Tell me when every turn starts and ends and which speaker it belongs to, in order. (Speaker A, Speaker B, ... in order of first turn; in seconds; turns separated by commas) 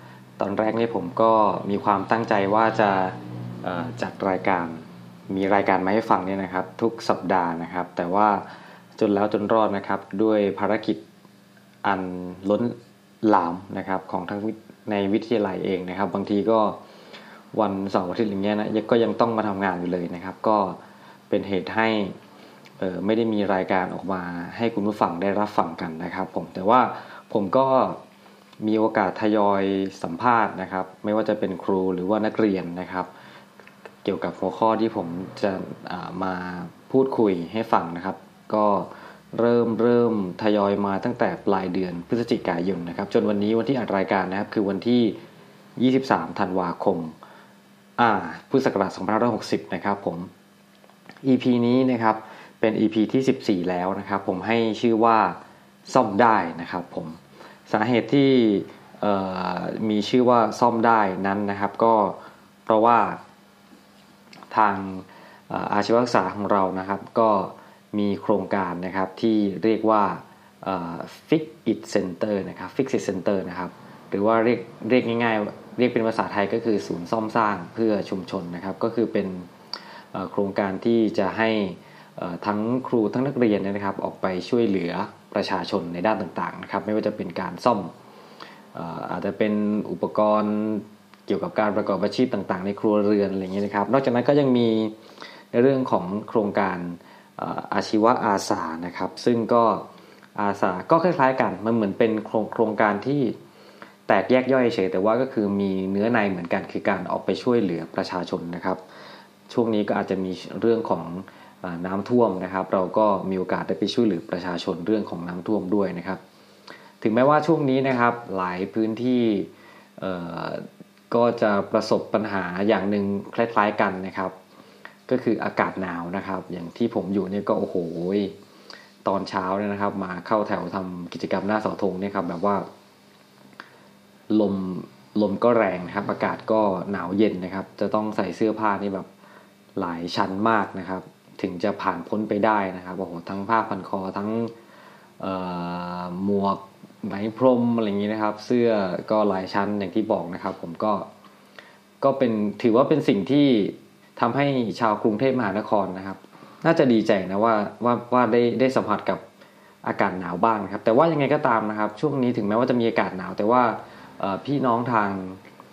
Speaker A: 0.4-8.4, Speaker A: 9.0-11.0, Speaker A: 11.8-16.8, Speaker A: 17.5-20.8, Speaker A: 21.3-22.1, Speaker A: 22.8-28.0, Speaker A: 28.6-33.1, Speaker A: 34.0-45.2, Speaker A: 45.8-47.1, Speaker A: 48.0-50.3, Speaker A: 51.2-57.2, Speaker A: 57.7-63.2, Speaker A: 64.5-79.5, Speaker A: 80.1-87.9, Speaker A: 88.7-95.0, Speaker A: 95.5-99.8, Speaker A: 100.4-103.4, Speaker A: 104.1-108.8, Speaker A: 109.5-116.2, Speaker A: 117.0-124.3, Speaker A: 125.1-128.3, Speaker A: 129.0-132.7, Speaker A: 134.3-139.1, Speaker A: 139.8-144.5, Speaker A: 145.2-151.1, Speaker A: 152.0-159.2, Speaker A: 159.8-165.4